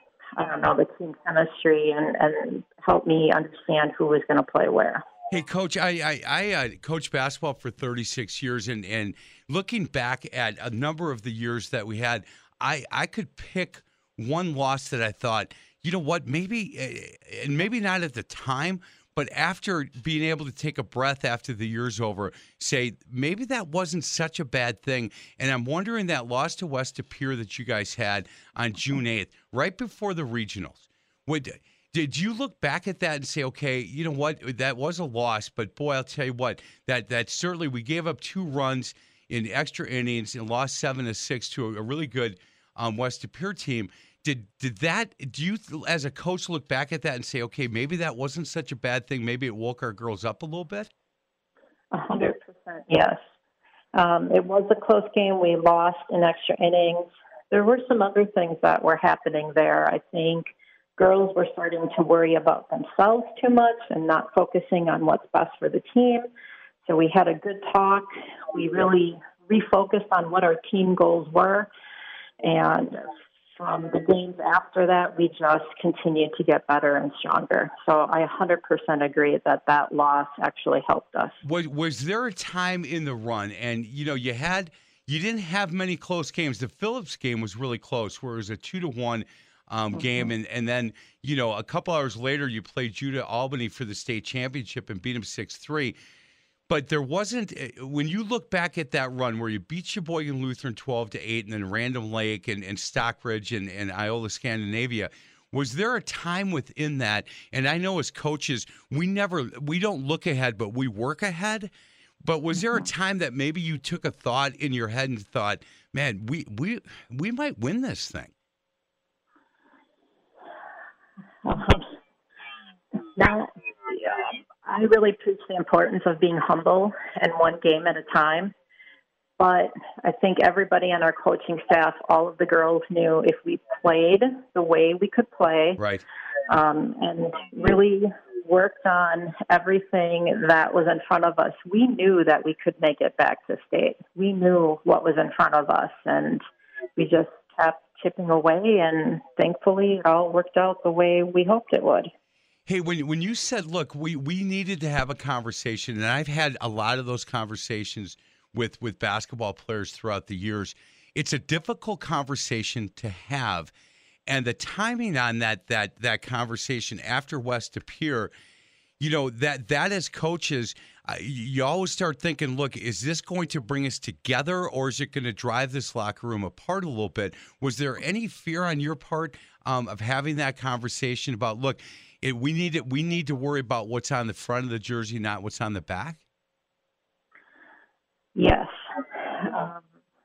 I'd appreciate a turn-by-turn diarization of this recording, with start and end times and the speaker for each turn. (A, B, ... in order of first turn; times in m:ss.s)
0:00.4-0:05.0 A
0:05.3-0:50.9 B
0:51.9-0:53.2 A
0:54.0-1:06.3 A
1:06.9-1:11.7 A
1:12.4-1:13.1 A
1:13.6-1:21.4 A
1:21.4-1:36.0 B
1:29.9-1:30.3 A
1:36.7-1:51.7 B
1:52.2-1:58.3 B
2:01.4-2:01.9 A
2:03.2-2:08.5 A
2:09.4-2:15.8 A
2:15.8-2:16.0 B
2:16.5-2:26.4 A
2:27.0-2:32.1 A
2:32.7-2:43.7 B
2:44.3-2:48.3 B
2:49.0-3:06.2 B
3:08.4-3:09.8 A